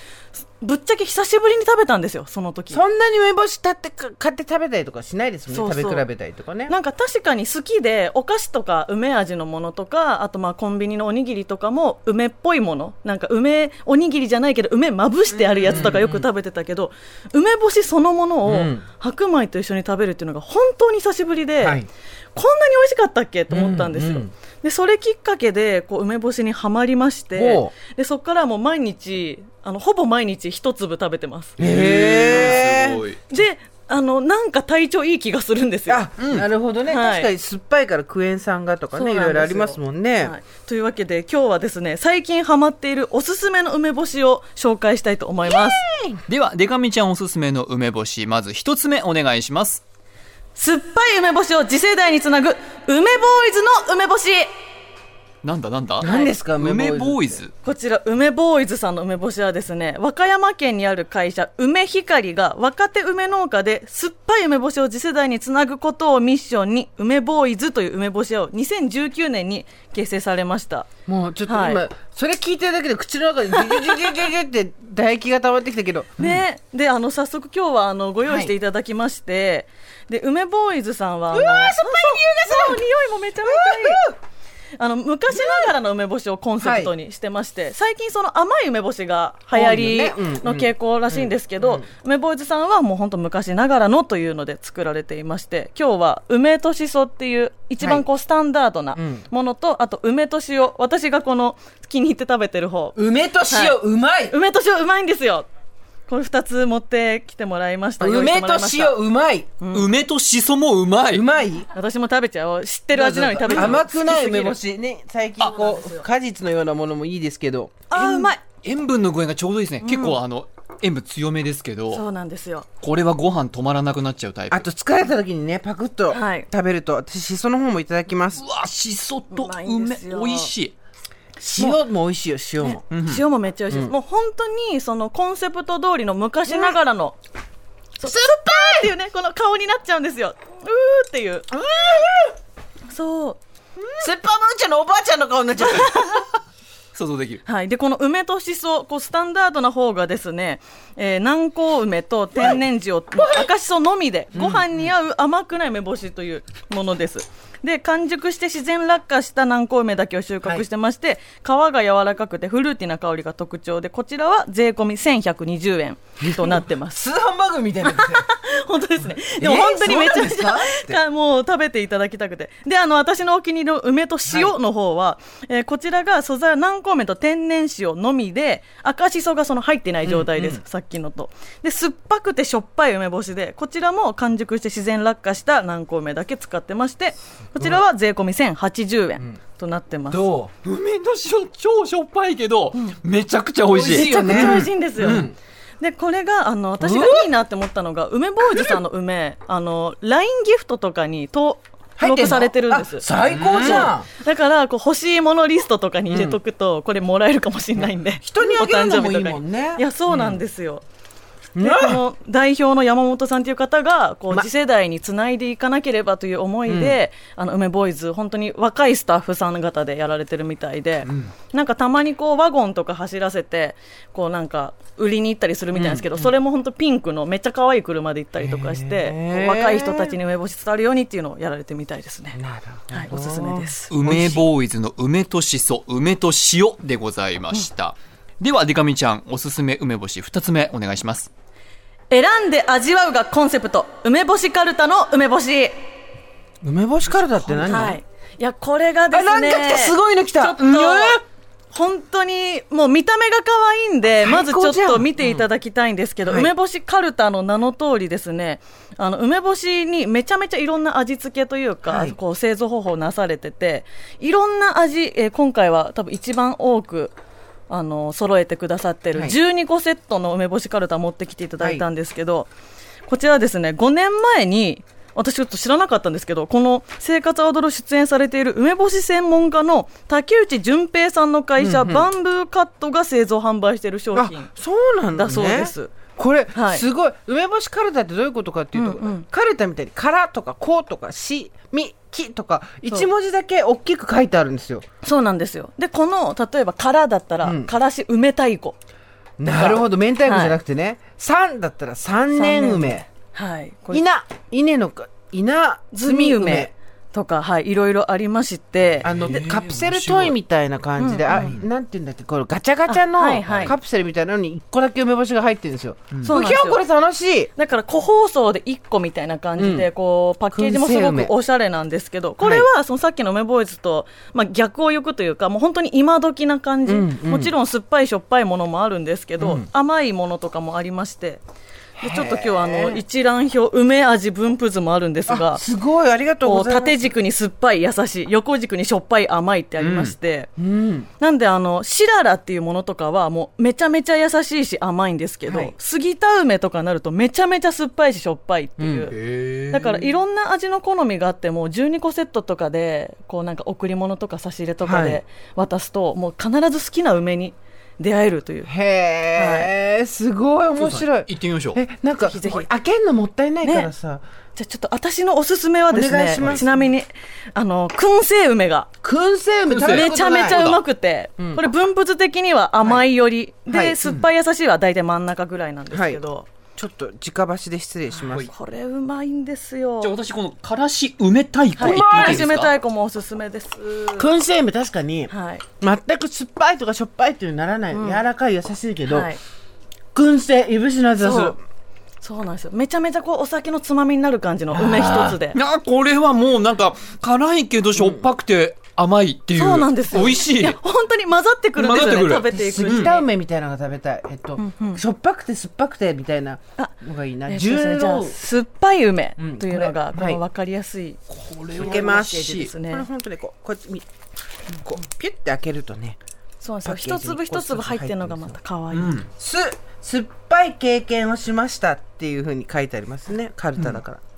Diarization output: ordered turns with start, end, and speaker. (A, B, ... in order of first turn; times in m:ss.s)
0:00.3-0:02.8 A
0:02.7-0:06.7 B
0:05.5-0:06.0 A
0:06.7-0:21.8 A
0:15.6-0:16.3 B
0:18.4-0:18.8 B
0:21.6-0:21.9 B
0:22.3-0:31.6 A
0:23.5-0:24.3 B
0:27.3-0:27.7 B
0:31.6-0:33.0 B
0:31.6-0:33.2 C
0:32.3-0:32.6 A
0:33.3-0:36.1 A
0:35.9-0:40.3 B
0:36.2-0:36.5 C
0:36.8-0:37.3 A
0:38.9-0:45.8 A
0:45.4-0:46.2 B
0:46.3-0:49.8 C
0:50.5-0:54.5 A
0:55.4-0:57.5 C
0:56.0-0:57.4 B
0:56.0-0:56.3 A
0:57.6-1:10.9 A
1:11.0-1:16.3 B
1:11.4-1:11.8 A
1:16.2-1:24.0 A
1:18.2-1:18.5 B
1:21.3-1:22.8 B
1:23.4-1:24.1 B
1:24.8-1:43.8 A
1:25.3-1:25.7 B
1:26.6-1:26.9 B
1:29.5-1:31.9 B
1:38.9-1:39.2 B
1:42.9-1:44.4 B
1:44.3-1:45.5 A
1:46.1-1:49.0 A
1:48.0-1:49.6 B
1:49.6-1:49.9 A
1:49.7-1:51.2 C
1:51.1-1:51.7 B
1:51.7-1:54.6 A
1:52.9-1:57.8 B
1:53.5-1:53.8 C
1:55.4-1:55.6 C
1:55.5-1:56.0 A
1:57.9-1:58.4 A
1:57.9-2:02.0 C
1:59.8-2:00.2 A
2:01.9-2:02.7 A
2:02.8-2:04.6 C
2:04.5-2:08.4 B
2:06.1-2:06.5 A
2:08.4-2:10.7 C
2:09.3-2:10.5 A
2:11.4-2:12.8 B
2:12.6-2:17.2 A
2:12.9-2:13.2 C
2:16.5-2:16.8 B
2:18.0-2:21.5 A
2:18.0-2:18.9 B
2:21.5-2:22.3 B
2:22.9-2:23.4 A
2:24.0-2:26.2 B
2:25.6-2:26.2 A
2:26.9-2:27.4 C
2:27.4-2:47.0 A
2:32.4-2:32.6 B
2:33.1-2:33.5 B
2:34.3-2:34.8 B
2:46.2-2:48.3 B
2:47.8-3:10.3 A
2:49.0-2:51.0 B
2:54.3-2:54.5 B
3:00.0-3:00.6 B
3:07.6-3:07.8 B
3:10.1-3:10.5 B
3:10.6-3:15.3 C
3:13.7-3:15.3 B
3:13.8-3:15.2 A
3:15.8-3:30.8 A
3:16.8-3:17.3 B
3:22.0-3:24.1 B
3:23.2-3:23.9 C
3:26.1-3:26.4 B
3:27.8-3:29.8 B
3:30.1-3:30.4 C
3:31.5-3:32.0 B
3:31.6-3:52.4 A
3:36.7-3:37.0 B
3:41.0-3:41.3 C
3:45.7-3:46.3 B
3:48.4-3:50.2 B
3:52.3-3:54.5 B
3:52.9-3:53.9 A
3:53.9-4:01.3 C
4:02.1-4:05.7 A
4:06.6-4:08.0 B
4:07.6-4:27.1 A
4:09.1-4:10.9 B
4:10.6-4:11.2 C
4:14.2-4:15.2 B
4:16.2-4:16.5 B
4:21.8-4:22.2 B
4:27.7-4:32.5 A
4:33.0-4:44.5 A
4:41.6-4:42.1 B
4:44.1-4:54.8 B
4:45.1-4:45.9 A
4:46.5-4:46.8 A
4:48.7-4:49.2 A
4:55.0-4:58.8 A
4:57.4-4:57.7 B
4:59.4-5:03.1 B
4:59.4-5:00.6 A
5:02.3-5:04.0 A
5:03.9-5:06.7 B
5:05.9-5:09.4 A
5:09.0-5:10.4 C
5:09.0-5:17.5 B
5:11.0-5:11.5 A
5:11.3-5:11.6 C
5:12.8-5:13.7 A
5:13.4-5:13.7 C
5:16.2-5:16.8 A
5:17.5-5:31.4 A
5:19.6-5:19.9 B
5:20.5-5:21.3 B
5:22.4-5:22.7 B
5:26.8-5:27.5 B
5:29.4-5:29.7 B
5:32.0-5:33.0 B
5:32.0-5:35.6 A
5:35.3-5:37.1 B
5:36.4-5:40.5 A
5:39.8-5:40.1 C
5:40.6-5:41.1 B
5:41.2-5:49.1 A
5:45.4-5:45.7 B
5:48.8-5:49.1 B
5:49.1-5:50.0 C
5:49.7-5:58.7 A
5:54.8-5:55.2 B
5:58.6-6:04.2 B
5:59.3-5:59.7 A
6:00.8-6:01.8 C
6:02.2-6:02.7 A
6:03.6-6:03.9 A
6:04.5-6:08.9 A
6:05.9-6:06.8 B
6:09.0-6:10.7 B
6:09.7-6:10.8 C
6:09.8-6:16.5 A
6:11.4-6:11.6 B
6:12.8-6:13.1 B
6:13.7-6:14.0 B
6:15.9-6:16.2 B
6:16.8-6:18.5 B
6:18.5-6:20.2 A
6:20.0-6:22.7 C
6:21.8-6:24.3 A
6:21.8-6:22.5 B
6:24.1-6:29.3 B
6:25.3-6:25.6 A
6:27.9-6:28.2 A
6:29.1-6:29.4 A
6:30.1-6:31.6 B
6:31.2-6:31.6 A
6:32.2-6:35.6 A
6:34.7-6:40.8 C
6:35.0-6:35.2 B
6:38.0-6:38.2 B
6:39.5-6:43.2 A
6:41.8-6:43.1 C
6:42.4-6:48.4 B
6:44.6-6:45.0 A
6:47.5-6:51.2 A
6:49.4-6:50.4 B
6:51.3-6:52.7 C
6:51.8-6:54.0 B
6:51.9-6:53.1 A
6:54.8-6:56.2 B
6:56.6-6:59.2 A
6:56.8-6:58.6 B
6:58.9-6:59.3 C
6:59.3-7:04.2 B